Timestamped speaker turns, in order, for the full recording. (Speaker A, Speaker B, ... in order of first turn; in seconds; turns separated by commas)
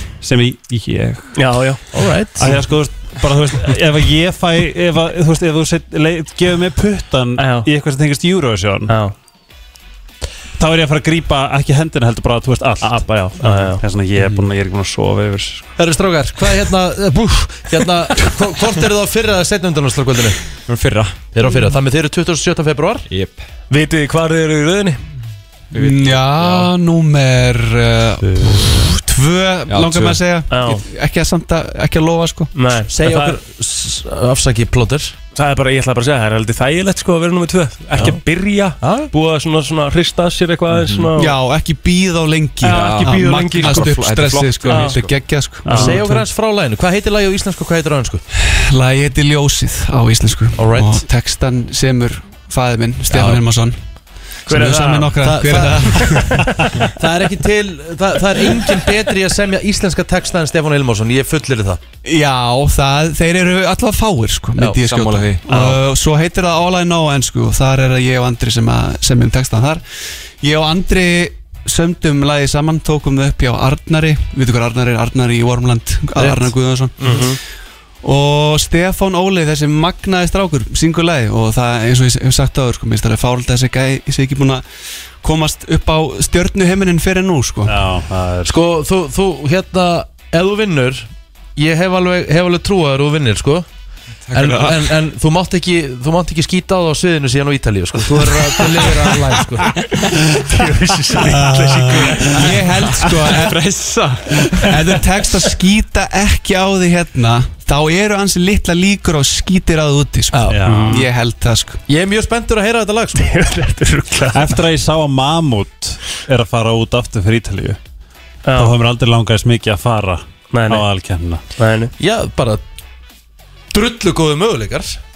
Speaker A: 0.2-1.5, Speaker B: 1.4-1.8, Speaker C: 1.9-2.6, Speaker A: 2.4-9.0, Speaker B: 7.4-7.7, Speaker B: 8.9-9.1, Speaker A: 10.6-15.7, Speaker B: 13.4-13.8, Speaker C: 15.8-20.5, Speaker D: 20.7-21.2, Speaker C: 21.3-23.1, Speaker D: 23.1-23.4, Speaker B: 23.7-25.0, Speaker D: 25.7-26.7, Speaker E: 25.8-32.5, Speaker D: 29.7-30.2, Speaker B: 30.5-30.8, Speaker B: 32.5-33.4, Speaker C: 32.9-35.2, Speaker B: 35.3-41.4, Speaker C: 38.8-39.1, Speaker D: 40.8-41.1, Speaker E: 41.1-46.2, Speaker B: 42.6-44.0, Speaker D: 42.7-45.2, Speaker B: 44.6-45.0, Speaker A: 45.6-46.0, Speaker C: 45.7-48.2, Speaker E: 48.6-53.8, Speaker C: 50.6-51.0, Speaker C: 53.1-53.4, Speaker B: 54.5-55.6, Speaker E: 54.5-56.7, Speaker C: 55.2-56.2, Speaker C: 57.0-61.8, Speaker E: 62.0-69.8, Speaker C: 64.6-64.9, Speaker D: 64.9-65.4, Speaker C: 65.5-65.8, Speaker E: 70.4-77.4, Speaker C: 76.2-76.5, Speaker B: 77.0-77.4, Speaker E: 78.0-84.7, Speaker E: 85.2-87.8, Speaker A: 87.7-88.6, Speaker C: 88.5-93.7, Speaker D: 94.3-94.9, Speaker C: 94.3-99.7, Speaker E: 99.1-99.5, Speaker B: 100.5-102.6, Speaker A: 101.2-102.5, Speaker E: 102.2-111.8, Speaker D: 103.3-104.7, Speaker C: 110.3-110.8, Speaker A: 110.5-111.0, Speaker B: 110.7-111.1, Speaker C: 111.9-113.3, Speaker B: 113.2-114.6, Speaker A: 114.3-117.8, Speaker B: 118.5-118.8, Speaker A: 118.5-121.4, Speaker B: 120.5-120.9, Speaker B: 121.6-121.9, Speaker C: 122.0-122.6, Speaker C: 123.7-125.0